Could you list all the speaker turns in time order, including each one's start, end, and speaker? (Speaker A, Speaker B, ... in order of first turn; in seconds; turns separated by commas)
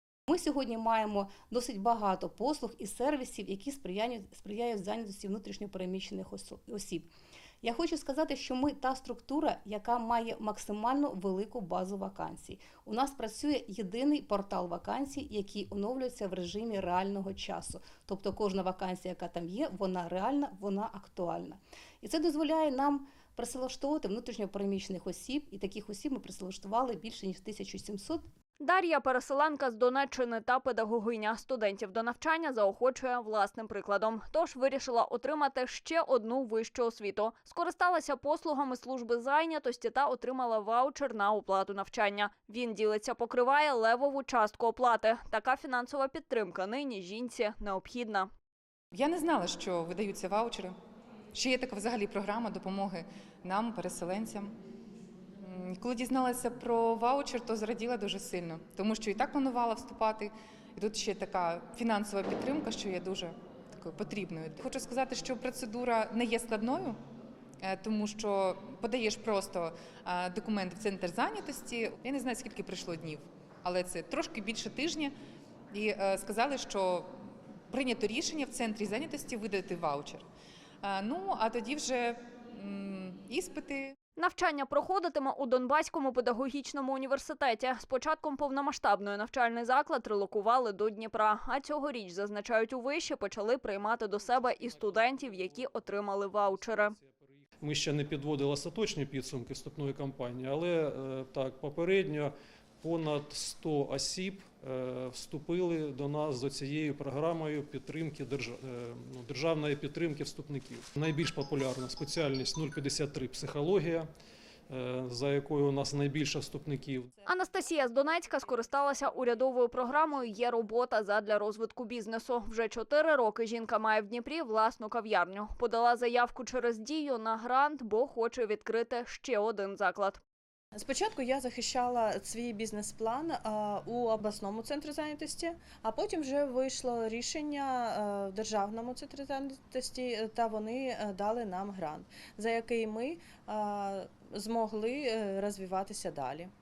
Speaker A: 0.3-7.1, Speaker A: 7.6-28.2, Speaker B: 28.6-48.3, Speaker C: 48.9-50.8, Speaker C: 51.3-54.5, Speaker C: 55.4-67.0, Speaker C: 67.6-75.1, Speaker C: 75.7-77.1, Speaker C: 77.7-80.2, Speaker C: 80.8-83.9, Speaker B: 84.2-96.9, Speaker D: 94.1-114.1, Speaker D: 114.7-117.1, Speaker B: 117.2-130.2, Speaker C: 117.5-118.2, Speaker E: 130.8-146.5